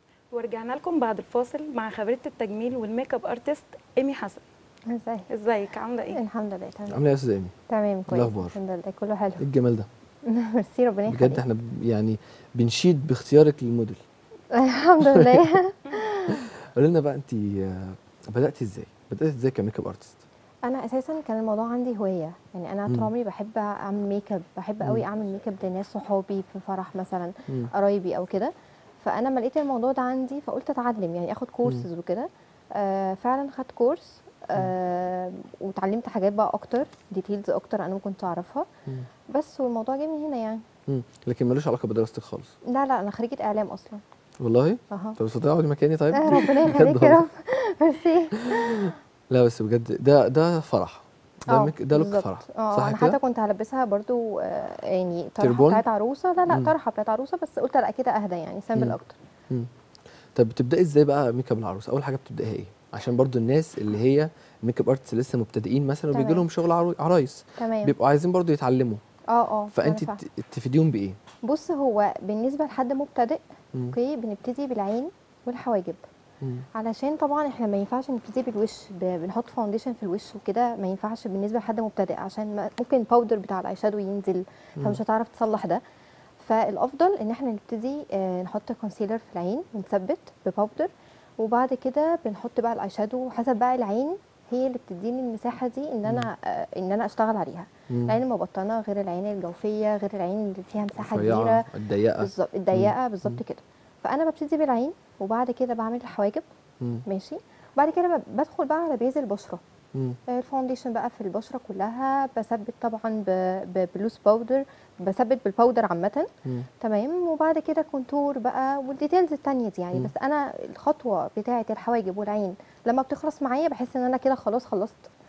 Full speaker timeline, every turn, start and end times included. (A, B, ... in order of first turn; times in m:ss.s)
0:00.3-0:04.4 A
0:04.9-0:05.3 B
0:05.3-0:06.2 A
0:06.1-0:07.0 B
0:06.9-0:07.5 C
0:07.7-0:09.4 B
0:08.1-0:08.6 C
0:09.4-0:09.9 C
0:10.2-0:11.4 B
0:11.1-0:14.0 C
0:14.5-0:16.5 B
0:15.0-0:15.5 C
0:16.3-0:20.2 C
0:20.6-0:38.7 B
0:39.3-0:40.6 B
0:40.9-0:42.6 C
0:42.7-0:44.0 B
0:44.4-0:47.2 C
0:44.9-0:45.2 B
0:46.1-0:48.9 B
0:48.4-0:53.2 C
0:51.5-0:59.2 B
0:55.4-0:55.8 C
1:00.3-1:09.0 C
1:06.1-1:06.4 B
1:07.6-1:07.9 B
1:09.3-1:10.2 B
1:09.7-1:11.2 C
1:11.4-1:16.0 B
1:16.4-1:16.6 C
1:16.7-1:25.8 B
1:26.4-1:46.4 B
1:37.9-1:38.2 C
1:41.0-1:43.4 C
1:47.0-1:49.6 B
1:50.3-1:56.3 B
1:56.8-2:05.1 B